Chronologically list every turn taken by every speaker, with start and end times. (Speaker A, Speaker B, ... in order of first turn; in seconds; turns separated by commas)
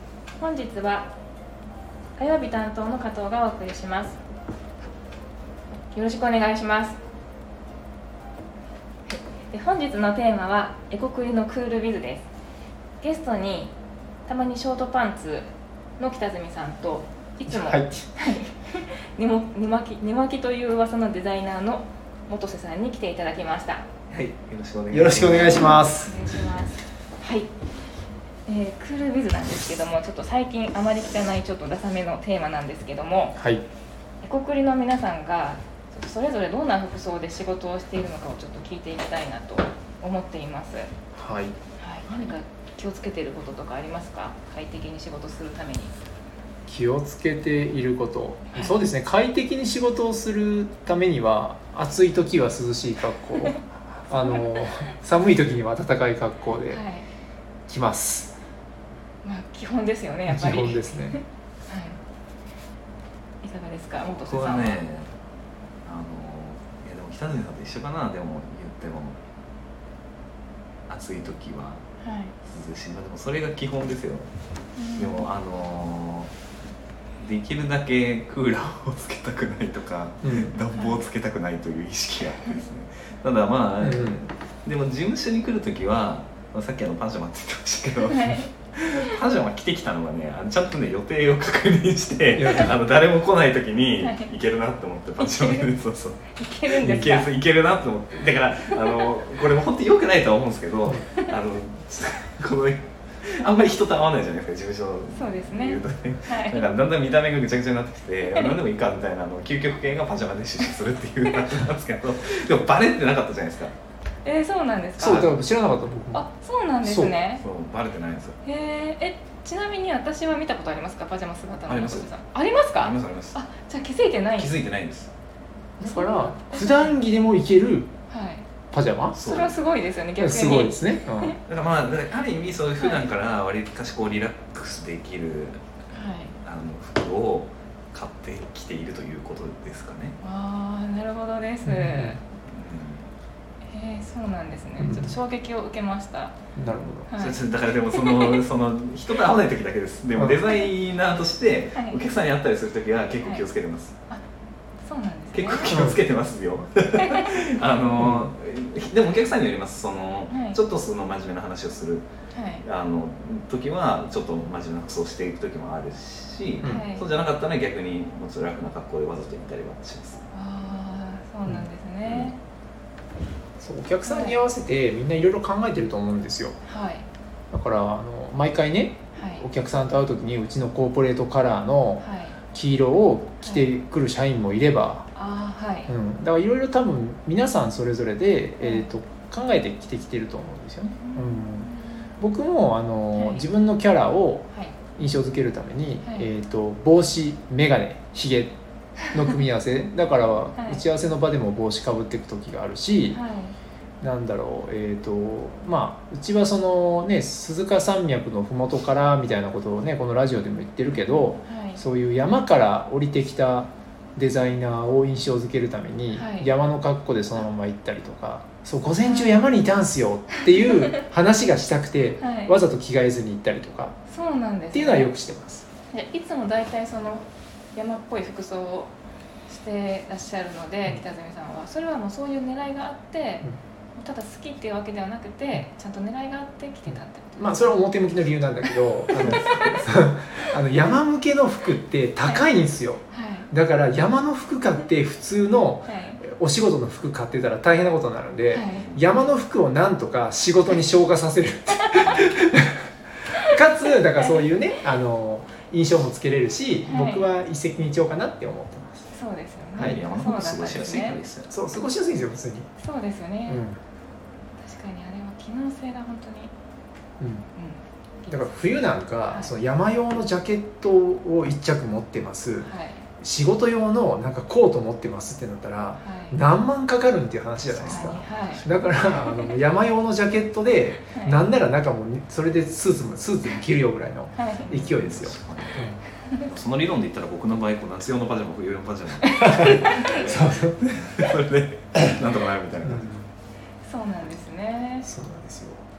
Speaker A: 0.4-1.1, Speaker A: 2.2-4.2, Speaker A: 5.9-7.0, Speaker A: 9.1-12.3, Speaker A: 13.0-13.7, Speaker A: 14.2-23.9, Speaker B: 17.5-18.1, Speaker C: 24.1-25.8, Speaker B: 24.9-26.3, Speaker A: 25.3-27.5, Speaker A: 28.4-33.4, Speaker B: 33.4-33.6, Speaker A: 34.2-40.9, Speaker B: 41.1-41.5, Speaker A: 41.8-45.9, Speaker B: 46.7-56.8, Speaker A: 48.5-48.8, Speaker A: 54.3-54.6, Speaker A: 56.7-57.0, Speaker B: 57.7-58.3, Speaker A: 59.2-62.0, Speaker B: 60.3-61.2, Speaker A: 63.4-64.8, Speaker C: 64.2-65.1, Speaker C: 65.8-69.2, Speaker C: 70.9-71.8, Speaker A: 72.0-72.3, Speaker C: 72.5-74.3, Speaker A: 74.8-75.3, Speaker C: 75.0-76.3, Speaker C: 77.2-113.7, Speaker B: 80.2-80.5, Speaker A: 80.7-81.0, Speaker B: 83.8-84.3, Speaker A: 88.0-88.5, Speaker B: 92.3-92.7, Speaker A: 94.0-94.3, Speaker A: 95.2-95.7, Speaker A: 96.3-97.3, Speaker A: 105.1-106.7, Speaker A: 114.2-115.3, Speaker B: 115.0-116.3, Speaker C: 115.0-115.3, Speaker A: 116.1-117.4, Speaker B: 116.8-117.1, Speaker C: 117.4-118.4, Speaker A: 118.4-124.5, Speaker C: 121.7-122.1, Speaker C: 122.7-123.4, Speaker C: 124.3-125.1, Speaker B: 125.8-127.9, Speaker A: 125.8-127.0, Speaker A: 128.1-128.4, Speaker B: 128.7-129.2, Speaker C: 129.1-129.6, Speaker A: 129.2-131.3, Speaker B: 130.2-131.4, Speaker C: 131.4-135.6, Speaker A: 132.8-133.0, Speaker A: 135.9-136.3, Speaker C: 136.4-140.2, Speaker A: 140.2-142.2, Speaker B: 141.6-142.2, Speaker C: 142.5-143.1, Speaker A: 143.7-146.4, Speaker B: 144.8-145.2, Speaker B: 146.6-147.1, Speaker A: 147.1-148.4, Speaker C: 147.2-153.9, Speaker B: 150.2-150.4, Speaker A: 151.7-152.0, Speaker A: 154.8-155.8, Speaker C: 155.3-162.1, Speaker B: 155.7-156.0, Speaker A: 157.0-157.4, Speaker B: 158.0-158.3, Speaker A: 160.3-160.6, Speaker A: 162.3-162.6, Speaker C: 162.6-170.2, Speaker B: 166.6-166.9, Speaker A: 166.6-167.1, Speaker A: 170.3-172.4, Speaker C: 172.0-172.3, Speaker B: 173.6-176.6, Speaker A: 174.0-174.4, Speaker A: 176.6-177.0, Speaker B: 177.5-185.1, Speaker A: 179.1-179.4, Speaker A: 182.0-182.4, Speaker A: 185.1-185.9, Speaker B: 185.9-198.6, Speaker A: 188.6-188.9, Speaker A: 190.9-192.1, Speaker A: 193.1-193.4, Speaker A: 196.0-196.3, Speaker B: 199.1-203.2, Speaker A: 200.5-200.8, Speaker A: 203.1-203.6, Speaker B: 204.0-223.9, Speaker A: 210.9-211.8, Speaker A: 216.1-216.5, Speaker A: 219.0-219.5, Speaker A: 222.2-222.6, Speaker A: 224.1-225.1, Speaker B: 224.7-225.6, Speaker A: 225.9-228.9, Speaker A: 229.5-237.7, Speaker B: 236.9-252.8, Speaker A: 239.2-239.9, Speaker A: 243.1-243.5, Speaker A: 245.8-246.2, Speaker A: 248.5-248.9, Speaker C: 248.8-249.0, Speaker B: 253.4-259.1, Speaker A: 254.2-254.5, Speaker A: 256.9-257.3, Speaker A: 259.1-261.2, Speaker C: 259.7-261.7, Speaker B: 259.8-260.0, Speaker B: 261.5-262.7, Speaker A: 262.8-263.6, Speaker B: 263.5-263.8, Speaker A: 264.6-266.5, Speaker B: 267.2-267.5, Speaker A: 267.5-268.7, Speaker B: 268.3-286.0, Speaker A: 269.3-269.5, Speaker A: 272.6-273.0, Speaker A: 276.0-276.4, Speaker C: 277.7-278.7, Speaker A: 277.9-279.5, Speaker A: 281.1-281.4, Speaker A: 284.3-284.7, Speaker C: 284.6-293.1, Speaker A: 289.3-290.1, Speaker B: 289.4-291.2, Speaker B: 292.8-293.3, Speaker A: 293.8-295.1, Speaker B: 295.0-295.8